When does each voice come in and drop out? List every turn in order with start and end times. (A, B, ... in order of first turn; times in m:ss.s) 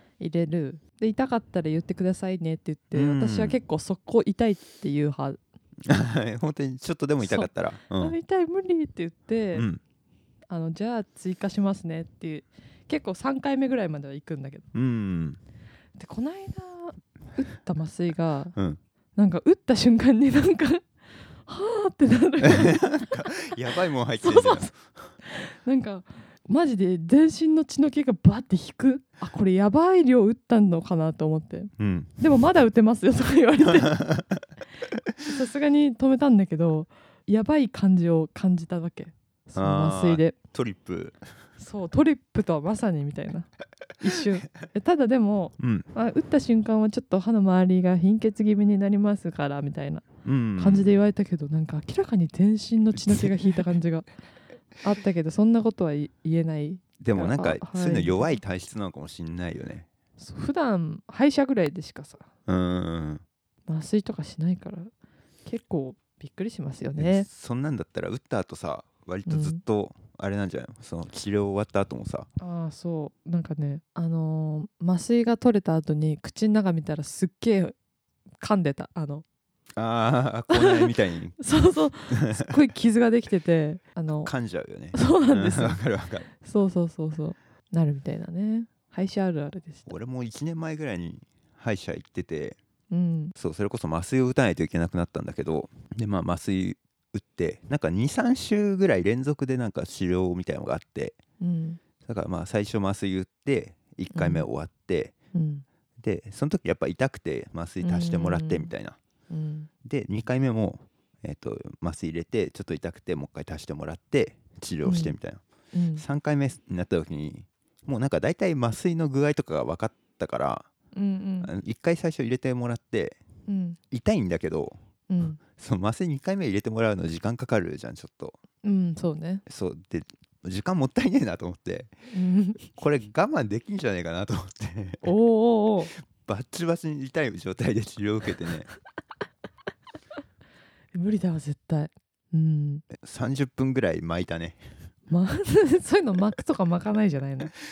0:00.2-0:05.4 A
0:02.9-0:03.6 B
0:05.9-0:08.2 B
0:07.2-0:09.7 A
0:09.5-0:09.8 B
0:10.5-0:14.7 A
0:14.7-0:15.4 B
0:16.0-0:18.6 A
0:19.2-0:23.5 A
0:22.4-0:24.9 B
0:24.2-0:24.7 A
0:25.2-0:34.0 A
0:31.8-0:32.2 B
0:33.8-0:34.4 B
0:35.2-0:40.4 A
0:39.6-0:41.3 B
0:41.6-0:43.5 A
0:44.0-0:54.1 A
0:45.6-0:45.9 B
0:50.2-0:51.0 B
0:54.8-0:58.4 A
0:57.0-0:59.9 B
1:00.2-1:02.3 A
1:02.5-1:03.2 B
1:03.7-1:04.9 A
1:05.5-1:07.3 A
1:07.0-1:12.3 B
1:09.3-1:09.6 A
1:12.4-1:17.8 A
1:18.4-1:19.2 A
1:19.8-1:21.4 B
1:20.5-1:24.3 A
1:22.1-1:22.5 B
1:24.2-1:26.3 B
1:24.9-1:25.8 A
1:26.4-1:29.9 A
1:29.9-1:32.6 B
1:32.9-1:33.3 A
1:33.4-1:41.2 B
1:41.4-1:41.8 A
1:42.0-1:45.1 B
1:44.1-1:44.5 A
1:45.3-1:45.6 A
1:46.0-1:49.0 B
1:47.8-1:48.7 A
1:49.3-1:49.7 A
1:49.8-1:55.4 B
1:54.8-1:55.2 A
1:55.7-1:56.0 A
1:56.0-2:00.7 B
2:00.9-2:01.5 A
2:01.4-2:03.2 B
2:03.5-2:03.8 A
2:03.9-2:04.8 B
2:05.1-2:05.4 A
2:05.5-2:08.4 B
2:08.6-2:09.4 A
2:09.5-2:11.9 B
2:12.1-2:12.6 A
2:12.7-2:15.1 B
2:15.0-2:15.9 A
2:16.1-2:18.7 B
2:20.9-2:22.9 A
2:23.0-2:24.6 B
2:25.1-2:27.5 A